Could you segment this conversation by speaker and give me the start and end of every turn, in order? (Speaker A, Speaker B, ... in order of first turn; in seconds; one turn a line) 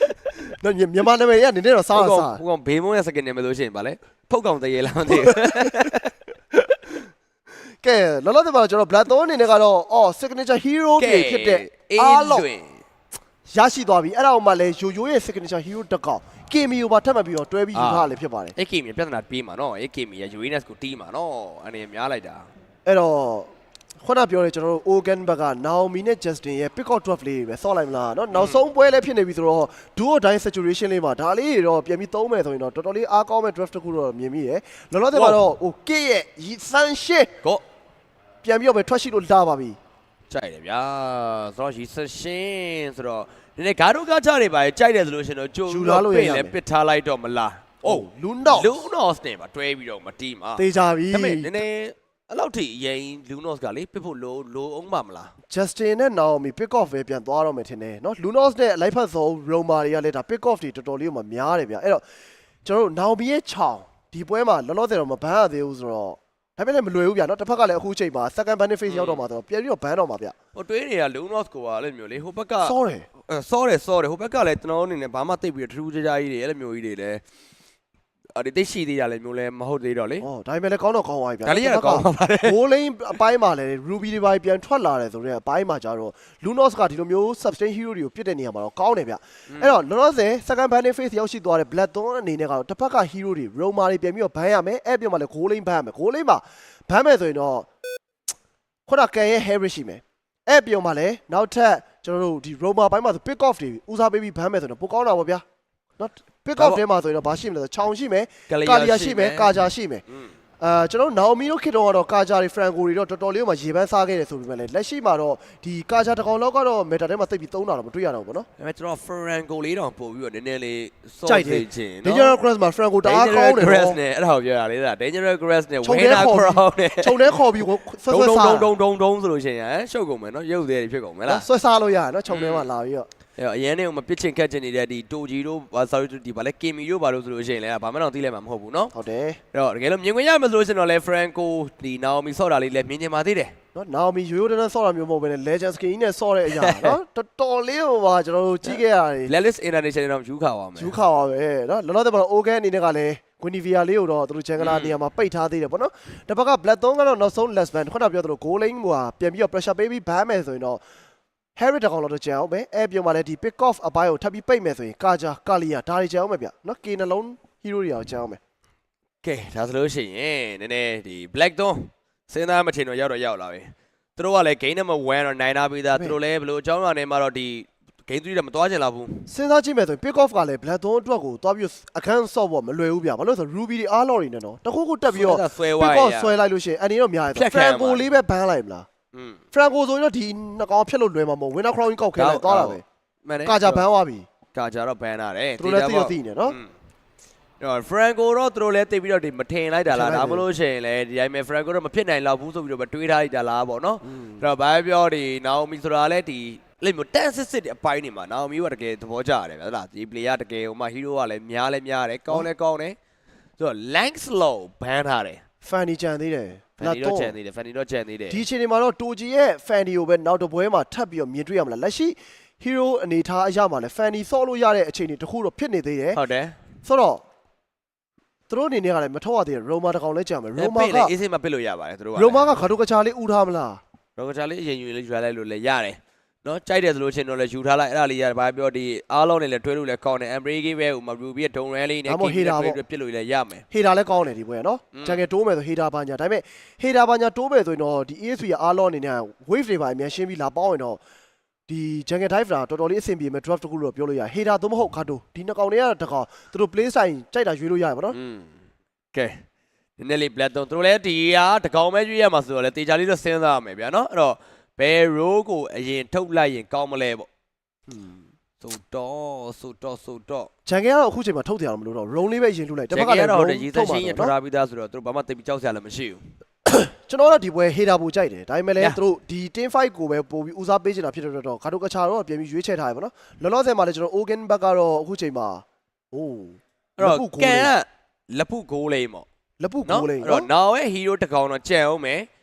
Speaker A: 0.5-2.4
Speaker B: 1.9-6.1
Speaker A: 5.1-5.9
Speaker A: 7.8-12.5
Speaker B: 11.0-12.8
Speaker A: 13.5-18.5
Speaker B: 17.7-22.5
Speaker A: 22.8-23.5
Speaker A: 24.0-37.3
Speaker B: 28.3-28.6
Speaker B: 35.1-35.5
Speaker A: 38.4-39.8
Speaker B: 40.3-55.3
Speaker A: 45.7-46.6
Speaker A: 47.8-48.8
Speaker A: 50.6-51.6
Speaker A: 55.5-62.0
Speaker A: 62.6-70.3
Speaker B: 68.9-69.2
Speaker B: 70.5-72.7
Speaker A: 72.6-73.1
Speaker B: 73.3-77.2
Speaker B: 78.3-80.2
Speaker A: 80.2-97.7
Speaker B: 81.4-82.5
Speaker B: 89.5-89.8
Speaker A: 98.9-105.4
Speaker A: 106.0-110.0
Speaker B: 106.5-106.8
Speaker B: 108.5-110.3
Speaker A: 110.6-118.5
Speaker B: 118.6-122.4
Speaker A: 121.2-124.0
Speaker B: 123.0-131.4
Speaker A: 125.8-128.7
Speaker A: 131.2-133.1
Speaker B: 132.3-132.7
Speaker B: 133.4-138.9
Speaker A: 138.9-139.4
Speaker B: 139.5-143.5
Speaker A: 143.7-149.3
Speaker B: 146.5-146.9
Speaker B: 148.6-151.0
Speaker A: 150.8-160.8
Speaker B: 154.6-154.9
Speaker A: 161.6-168.4
Speaker B: 169.2-179.3
Speaker A: 175.9-176.2
Speaker A: 179.3-188.9
Speaker B: 185.1-186.3
Speaker B: 187.3-188.1
Speaker B: 189.1-189.4
Speaker A: 189.5-192.8
Speaker B: 192.1-193.8
Speaker A: 193.4-194.3
Speaker B: 194.5-196.7
Speaker A: 195.6-196.6
Speaker B: 197.6-213.0
Speaker A: 199.9-200.5
Speaker A: 204.0-204.4
Speaker B: 213.6-215.4
Speaker A: 215.6-217.4
Speaker B: 216.8-218.4
Speaker A: 218.3-226.2
Speaker B: 226.1-226.6
Speaker A: 226.8-227.2
Speaker A: 228.5-231.1
Speaker B: 230.6-232.5
Speaker A: 232.1-233.8
Speaker B: 234.2-243.6
Speaker A: 242.1-242.8
Speaker A: 243.7-251.0
Speaker B: 244.9-245.2
Speaker A: 251.7-258.2
Speaker B: 258.1-258.5
Speaker B: 259.1-259.4
Speaker B: 260.0-267.3
Speaker A: 267.9-268.2
Speaker B: 268.6-270.5
Speaker A: 270.6-274.3
Speaker B: 272.9-276.3
Speaker A: 276.6-287.7
Speaker B: 287.0-289.2
Speaker A: 289.6-290.5
Speaker B: 289.8-292.3